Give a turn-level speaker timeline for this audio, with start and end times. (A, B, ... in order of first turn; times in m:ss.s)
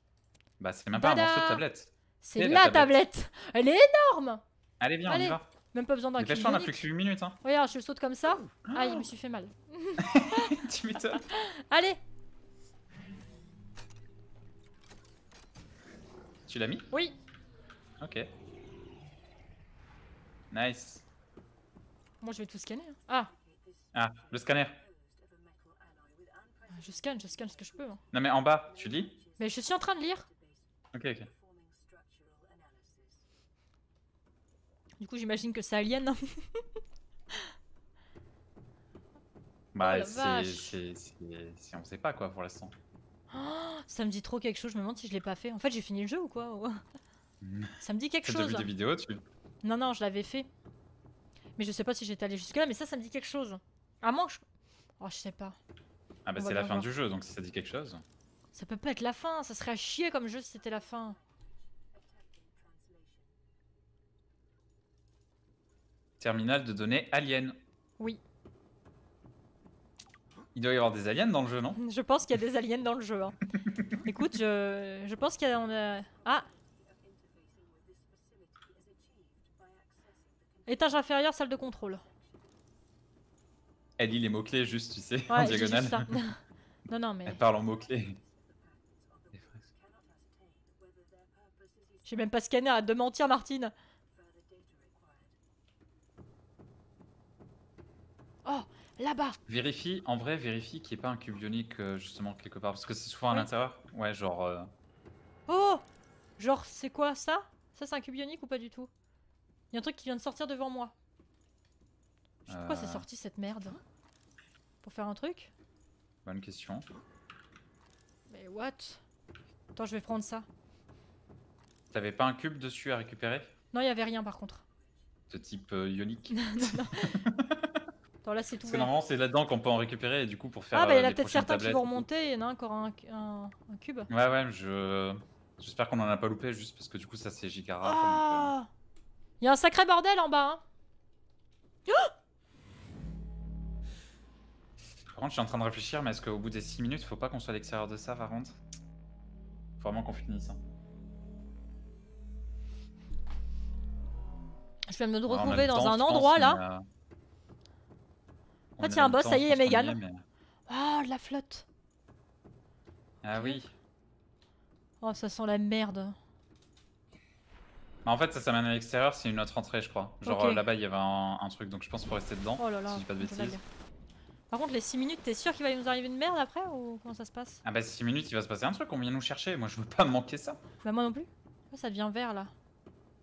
0:00.6-0:03.0 A
0:01.0-0:01.6 B
0:02.2-0:04.4 B
0:04.8-0:05.5 A
0:05.1-0:06.8 B
0:06.2-0:07.4 A
0:07.4-0:10.6 B
0:08.7-0:09.0 A
0:10.0-0:11.2 A
0:11.2-0:12.0 B
0:16.5-0:16.9 A
0:18.0-0:18.3 A
0:20.5-0:21.0 A
0:22.2-0:23.3 B
0:23.9-0:24.8 A
0:26.7-0:28.0 B
0:28.1-0:29.2 A
0:29.4-0:30.3 B
0:30.9-0:31.3 A
0:35.0-0:36.6 B
0:39.7-0:42.7 A
0:39.8-0:40.8 B
0:43.3-0:46.8 B
0:47.4-0:49.2 A
0:47.8-0:48.7 B
0:49.6-0:50.5 B
0:51.6-0:54.4 B
0:55.0-0:55.6 B
0:56.2-0:58.0 A
0:56.4-0:56.9 B
0:58.5-1:01.2 B
1:06.2-1:07.6 A
1:10.6-1:11.8 A
1:11.8-1:13.4 B
1:13.7-1:13.9 A
1:14.0-1:16.5 B
1:20.7-1:22.1 B
1:24.0-1:26.2 A
1:25.3-1:26.4 B
1:26.9-1:27.4 B
1:27.2-1:28.2 A
1:32.0-1:33.7 B
1:38.5-1:39.4 B
1:39.5-1:44.7 A
1:45.5-1:45.8 B
1:46.4-1:48.9 B
1:49.7-1:50.9 B
1:52.5-1:53.8 B
1:52.5-1:53.0 A
1:54.8-1:55.5 B
1:56.2-1:56.9 A
1:58.3-1:59.0 B
1:59.8-2:00.5 B
2:01.9-2:03.5 A
2:03.7-2:04.6 B
2:05.3-2:07.8 A
2:06.3-2:07.2 B
2:08.2-2:08.9 B
2:08.6-2:12.0 A
2:10.7-2:14.1 B
2:14.1-2:18.5 A
2:17.8-2:18.7 B
2:19.4-2:20.6 B
2:25.1-2:28.6 A
2:29.8-2:30.6 A
2:34.9-2:36.6 B
2:35.3-2:36.8 A
2:38.8-2:40.2 A
2:38.8-2:40.0 B
2:40.7-2:41.6 B
2:43.2-2:43.7 A
2:43.3-2:43.6 B
2:45.0-2:46.2 B
2:48.0-2:53.6 A
2:50.2-2:50.7 B
2:52.6-2:53.6 B
2:54.5-2:57.6 B
2:57.6-3:00.6 A
3:00.8-3:02.5 B